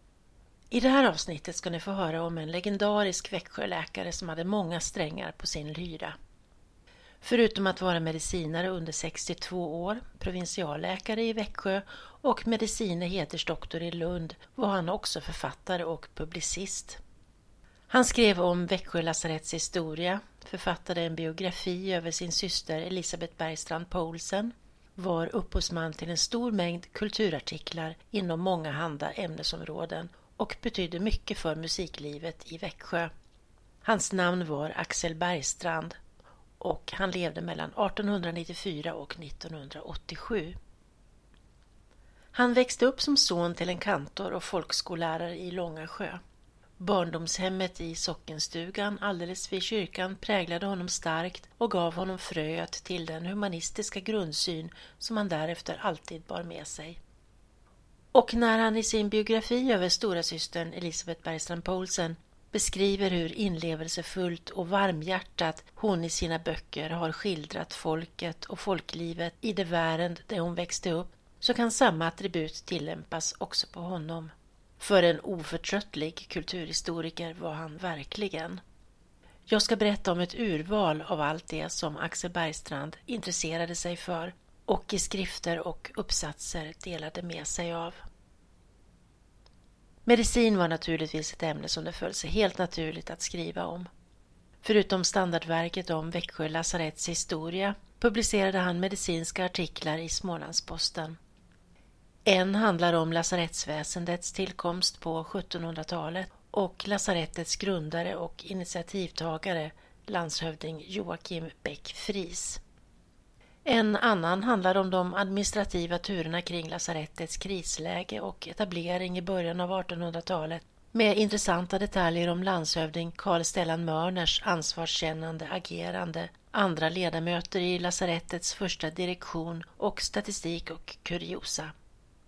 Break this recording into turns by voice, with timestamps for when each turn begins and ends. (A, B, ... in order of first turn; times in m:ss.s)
0:00.7-0:06.2 A
0:07.2-0:17.0 A
0:17.9-0:33.1 A
0:33.8-0:36.0 A
0:36.6-0:40.6 A
0:42.3-0:46.2 A
0:46.8-0:57.0 A
0:58.1-1:18.6 A
1:19.5-1:28.0 A
1:30.0-1:33.9 A
1:34.6-1:41.2 A
1:42.2-1:52.6 A
1:53.6-2:11.7 A